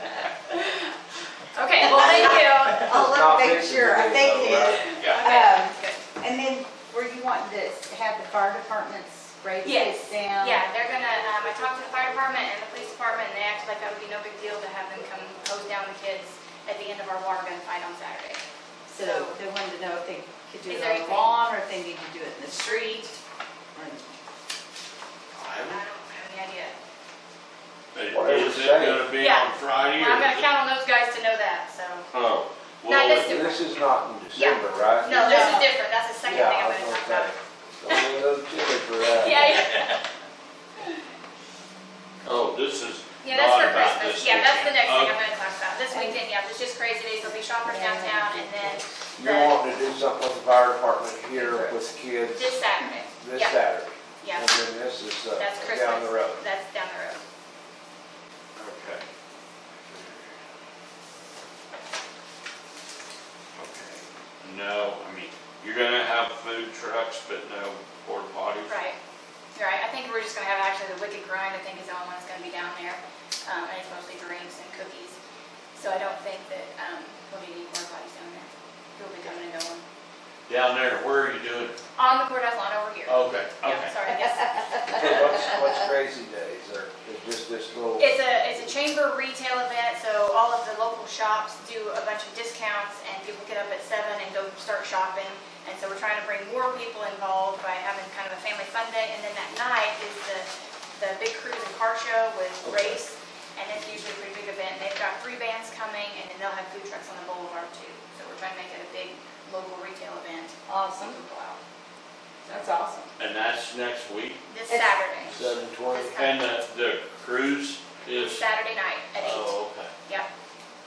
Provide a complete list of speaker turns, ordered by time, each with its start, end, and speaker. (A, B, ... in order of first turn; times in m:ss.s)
0:00.5-0:00.9 A
0:01.5-0:03.0 A
0:01.8-0:10.6 B
0:01.9-0:04.9 C
0:04.6-0:06.0 A
0:05.0-0:05.2 D
0:09.6-0:18.4 A
0:18.9-0:23.2 B
0:19.0-0:19.4 A
0:20.6-0:21.3 A
0:23.7-0:24.0 B
0:25.3-0:25.8 D
0:25.6-0:26.7 A
0:27.9-0:30.5 D
0:28.1-0:29.1 C
0:29.2-0:32.1 A
0:32.1-0:33.3 D
0:32.8-0:33.7 A
0:33.1-0:35.6 C
0:34.3-0:37.3 A
0:35.2-0:35.7 B
0:36.2-0:39.6 C
0:37.8-0:38.1 A
0:39.0-0:40.0 A
0:42.2-0:45.2 D
0:43.2-0:49.6 A
0:45.9-0:46.2 B
0:47.6-0:48.8 B
0:49.2-0:52.6 C
0:51.3-0:51.9 B
0:52.3-0:53.6 A
0:53.2-0:56.4 C
0:54.2-0:54.5 A
0:55.4-0:57.2 A
0:58.6-0:59.1 D
0:59.8-1:00.4 D
1:03.6-1:08.8 D
1:08.7-1:09.0 A
1:09.5-1:15.2 A
1:15.8-1:19.8 A
1:20.5-1:21.8 D
1:22.0-1:25.4 A
1:23.1-1:23.9 D
1:24.9-1:28.1 C
1:28.0-1:51.6 A
1:42.6-1:43.0 C
1:50.7-1:51.2 B
1:52.5-1:53.1 B
1:53.2-1:54.4 D
1:54.5-1:56.5 A
1:54.7-1:55.0 B
1:55.3-1:56.1 C
1:56.1-1:58.4 D
1:58.1-2:00.3 A
1:59.2-1:59.9 D